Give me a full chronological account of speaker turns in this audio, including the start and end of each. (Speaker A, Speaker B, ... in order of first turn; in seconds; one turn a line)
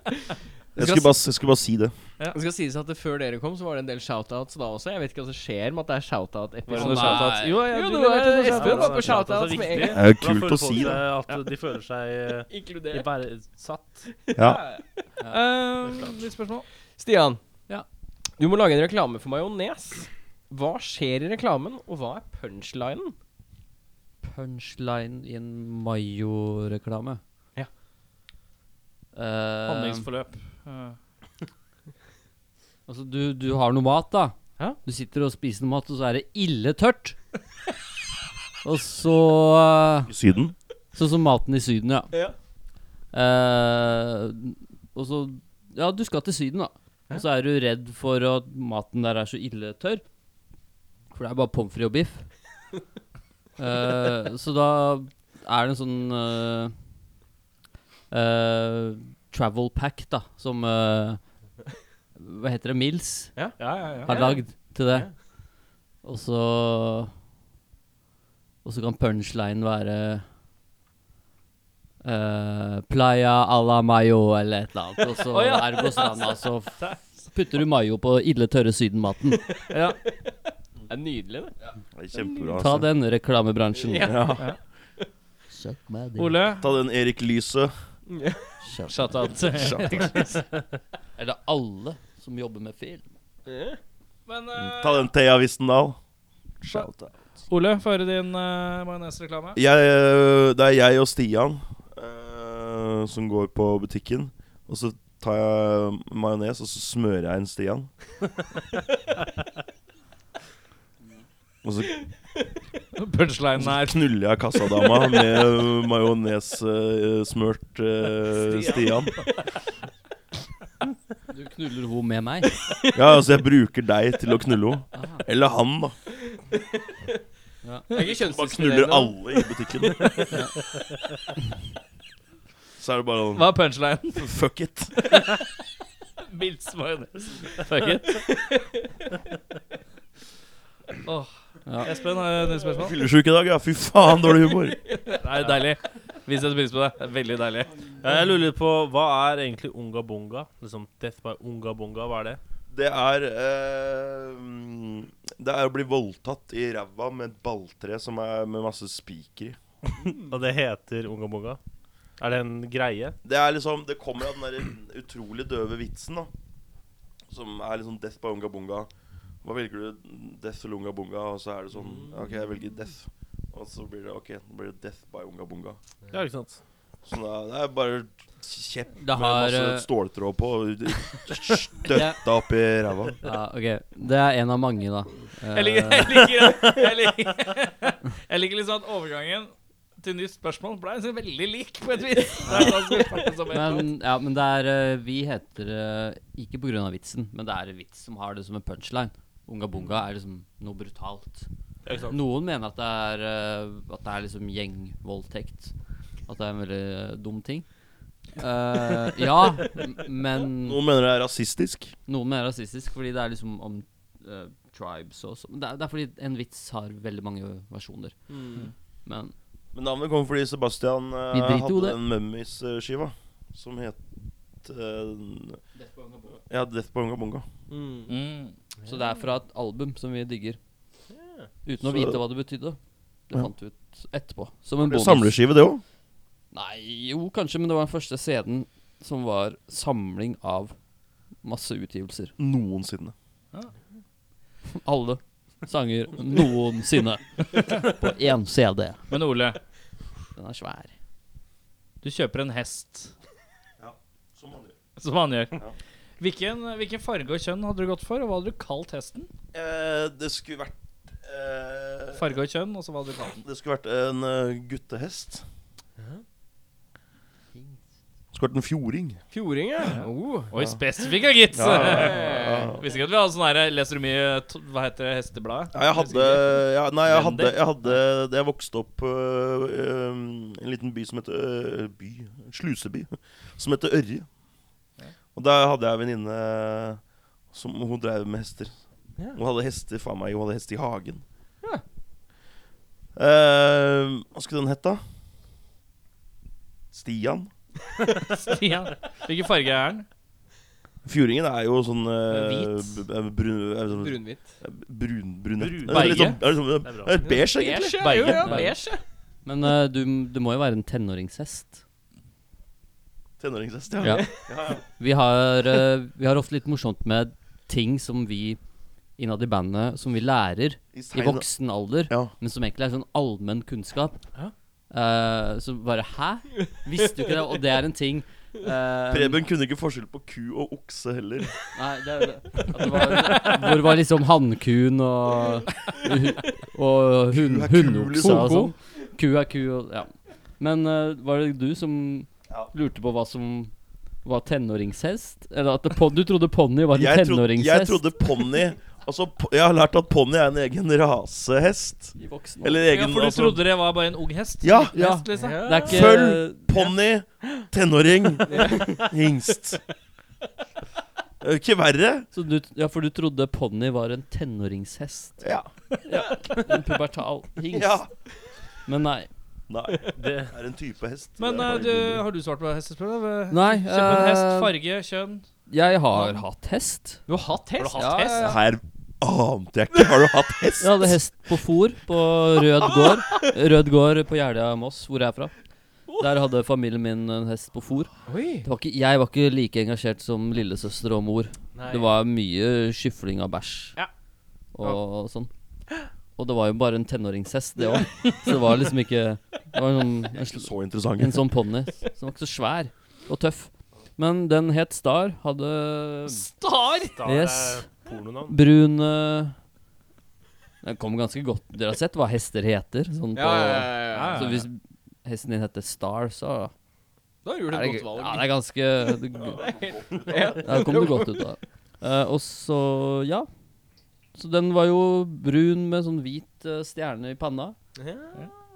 Speaker A: 0.8-1.9
Speaker B: 2.3-10.0
Speaker C: 6.7-9.9
Speaker D: 6.7-7.7
Speaker E: 8.5-14.1
Speaker A: 9.9-11.0
Speaker B: 12.5-13.1
Speaker B: 14.1-15.0
Speaker A: 14.3-14.6
Speaker C: 15.3-16.6
Speaker B: 17.0-17.4
Speaker B: 18.4-23.1
Speaker D: 24.2-27.2
Speaker D: 29.1-30.0
Speaker C: 29.6-31.0
Speaker D: 32.9-37.1
Speaker D: 38.6-40.1
Speaker A: 40.1-40.5
Speaker D: 40.9-42.1
Speaker D: 43.1-50.0
Speaker D: 51.1-52.3
Speaker D: 53.6-56.7
Speaker D: 58.1-61.2
Speaker D: 62.1-63.5
Speaker B: 63.3-65.1
Speaker C: 63.6-64.2
Speaker D: 64.0-65.1
Speaker D: 66.0-67.1
Speaker D: 68.6-70.2
Speaker D: 72.0-79.6
Speaker C: 75.3-77.1
Speaker B: 79.6-80.3
Speaker C: 79.7-80.0
Speaker B: 80.9-81.5
Speaker A: 81.9-82.9
Speaker B: 82.1-82.6
Speaker D: 82.5-84.3
Speaker B: 83.8-84.4
Speaker A: 84.0-84.5
Speaker D: 85.5-86.5
Speaker C: 86.2-86.7
Speaker A: 86.6-87.7
Speaker B: 88.1-88.5
Speaker D: 88.6-89.5
Speaker C: 88.9-90.4
Speaker A: 89.5-90.3
Speaker D: 91.2-93.1
Speaker B: 93.5-93.8
Speaker C: 94.3-95.1
Speaker A: 94.5-96.0
Speaker A: 96.6-97.1
Speaker C: 97.5-99.6
Speaker A: 99.5-107.9
Speaker A: 111.6-112.0
Speaker C: 113.0-114.0
Speaker A: 113.6-119.2
Speaker C: 118.3-119.3
Speaker D: 121.3-122.6
Speaker B: 122.6-123.0
Speaker A: 122.9-125.9
Speaker D: 124.9-125.2
Speaker B: 126.2-127.2
Speaker D: 127.6-127.9
Speaker B: 127.9-130.2
Speaker A: 128.0-130.3
Speaker A: 132.8-133.5
Speaker C: 133.3-134.3
Speaker A: 134.1-135.1
Speaker C: 136.3-138.3
Speaker B: 138.1-138.8
Speaker C: 141.0-142.9
Speaker D: 141.7-141.9
Speaker A: 142.8-144.8
Speaker C: 145.1-147.7
Speaker E: 148.0-152.4
Speaker A: 152.7-159.6
Speaker E: 160.0-161.6
Speaker E: 162.2-163.2
Speaker A: 163.2-166.3
Speaker A: 167.3-168.9
Speaker A: 169.4-175.8
Speaker B: 171.8-172.2
Speaker E: 176.1-176.6
Speaker A: 177.0-183.2
Speaker D: 179.0-179.9
Speaker D: 181.9-182.2
Speaker D: 183.2-186.2
Speaker C: 185.5-193.9
Speaker D: 192.5-192.7
Speaker D: 193.5-201.5
Speaker E: 201.8-202.2
Speaker D: 202.1-205.7
Speaker D: 206.2-207.7
Speaker D: 208.3-210.8
Speaker A: 210.5-211.9
Speaker D: 212.1-218.1
Speaker B: 218.3-218.7
Speaker D: 219.1-219.3
Speaker A: 219.7-224.0
Speaker D: 221.3-222.0
Speaker A: 224.6-225.6
Speaker D: 225.7-226.3
Speaker A: 226.4-227.4
Speaker B: 227.7-228.1
Speaker C: 228.1-228.5
Speaker D: 228.8-230.6
Speaker E: 231.1-231.5
Speaker D: 231.6-232.8
Speaker A: 231.8-232.2
Speaker D: 233.3-235.3
Speaker A: 234.8-235.8
Speaker D: 236.5-240.7
Speaker D: 241.4-242.3
Speaker A: 242.4-243.1
Speaker D: 244.8-249.0
Speaker C: 249.1-249.6
Speaker D: 250.3-250.9
Speaker C: 252.0-253.1
Speaker A: 253.8-254.8
Speaker C: 255.0-255.6
Speaker C: 256.2-259.3
Speaker A: 259.5-262.4
Speaker C: 262.1-263.4
Speaker A: 263.4-265.4
Speaker A: 268.3-269.2
Speaker B: 269.3-270.5
Speaker C: 269.9-272.2
Speaker A: 271.5-272.8
Speaker B: 271.7-272.8
Speaker C: 272.8-278.0
Speaker A: 275.7-284.3
Speaker A: 285.3-287.0
Speaker A: 287.5-288.8
Speaker A: 289.3-291.2
Speaker A: 293.1-295.0
Speaker A: 296.9-297.5
Speaker C: 298.2-300.1
Speaker A: 301.0-308.7
Speaker C: 302.3-303.0
Speaker B: 303.9-304.5
Speaker E: 305.6-306.3
Speaker C: 305.9-306.4
Speaker E: 306.8-307.2
Speaker B: 307.2-309.0
Speaker D: 308.4-308.7
Speaker D: 309.4-311.8
Speaker A: 313.4-314.8
Speaker D: 314.0-318.6
Speaker D: 319.2-324.2
Speaker A: 320.9-321.5
Speaker D: 324.9-329.4
Speaker A: 329.1-331.6
Speaker D: 331.7-343.7
Speaker A: 337.3-338.7
Speaker D: 344.2-348.0
Speaker A: 346.9-353.6
Speaker D: 352.2-352.8
Speaker C: 352.9-355.9
Speaker A: 354.6-354.9
Speaker D: 354.9-356.6
Speaker B: 355.3-356.2
Speaker A: 355.9-359.8
Speaker B: 358.4-359.1
Speaker A: 361.4-362.3
Speaker D: 362.3-365.4
Speaker A: 365.4-365.7
Speaker D: 366.1-368.0
Speaker A: 367.7-368.1
Speaker D: 368.9-369.3
Speaker A: 369.7-372.2
Speaker E: 370.1-370.5
Speaker C: 371.4-375.5
Speaker D: 373.5-374.7
Speaker D: 375.7-377.2
Speaker C: 376.1-376.4
Speaker B: 377.3-378.4
Speaker C: 377.8-378.5
Speaker D: 378.0-378.6
Speaker A: 378.4-381.2
Speaker D: 380.8-385.5
Speaker B: 383.0-383.4
Speaker D: 386.2-388.1
Speaker B: 388.3-388.7
Speaker D: 388.6-394.0
Speaker B: 391.7-392.1
Speaker D: 394.7-395.5
Speaker D: 396.4-406.4
Speaker A: 400.4-401.5
Speaker C: 406.3-407.1
Speaker E: 407.2-408.6
Speaker D: 407.2-407.9
Speaker D: 408.5-409.5
Speaker D: 410.8-416.7
Speaker B: 413.3-414.5
Speaker C: 414.1-414.6
Speaker B: 417.4-421.5
Speaker D: 417.7-419.6
Speaker A: 420.1-420.3
Speaker D: 420.6-423.5
Speaker D: 424.3-427.7
Speaker B: 428.0-428.5